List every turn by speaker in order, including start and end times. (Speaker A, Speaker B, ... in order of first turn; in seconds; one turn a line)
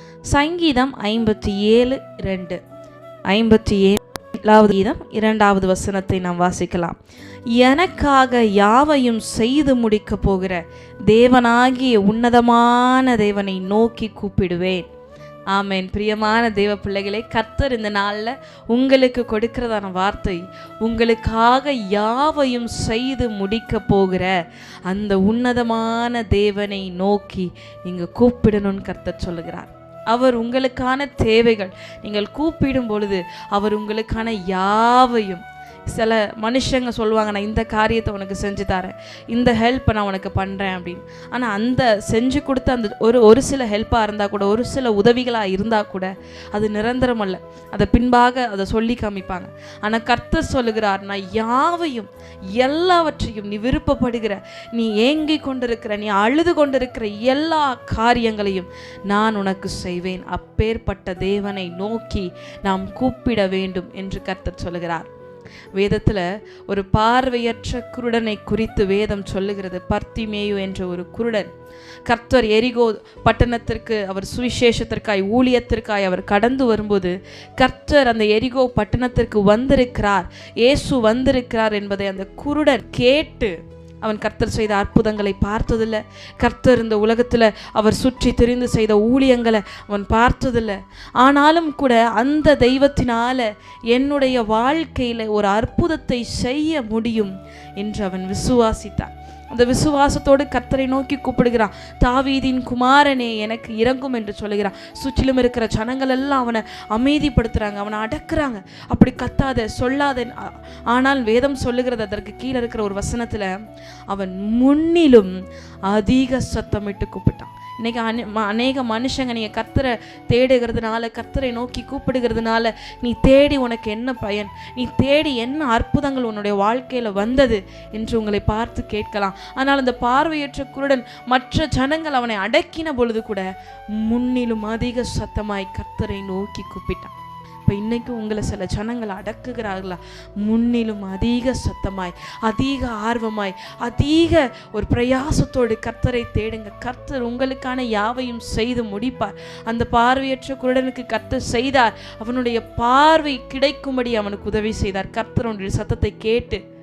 Speaker A: 0.3-2.6
Speaker A: 3.3-7.0
Speaker A: 7.5-14.9
Speaker A: 15.5-24.3
Speaker A: 24.9-65.1
Speaker A: 65.7-71.5
Speaker A: 72.0-113.5
Speaker A: 114.1-115.3
Speaker A: 115.8-137.1
Speaker A: 137.6-156.6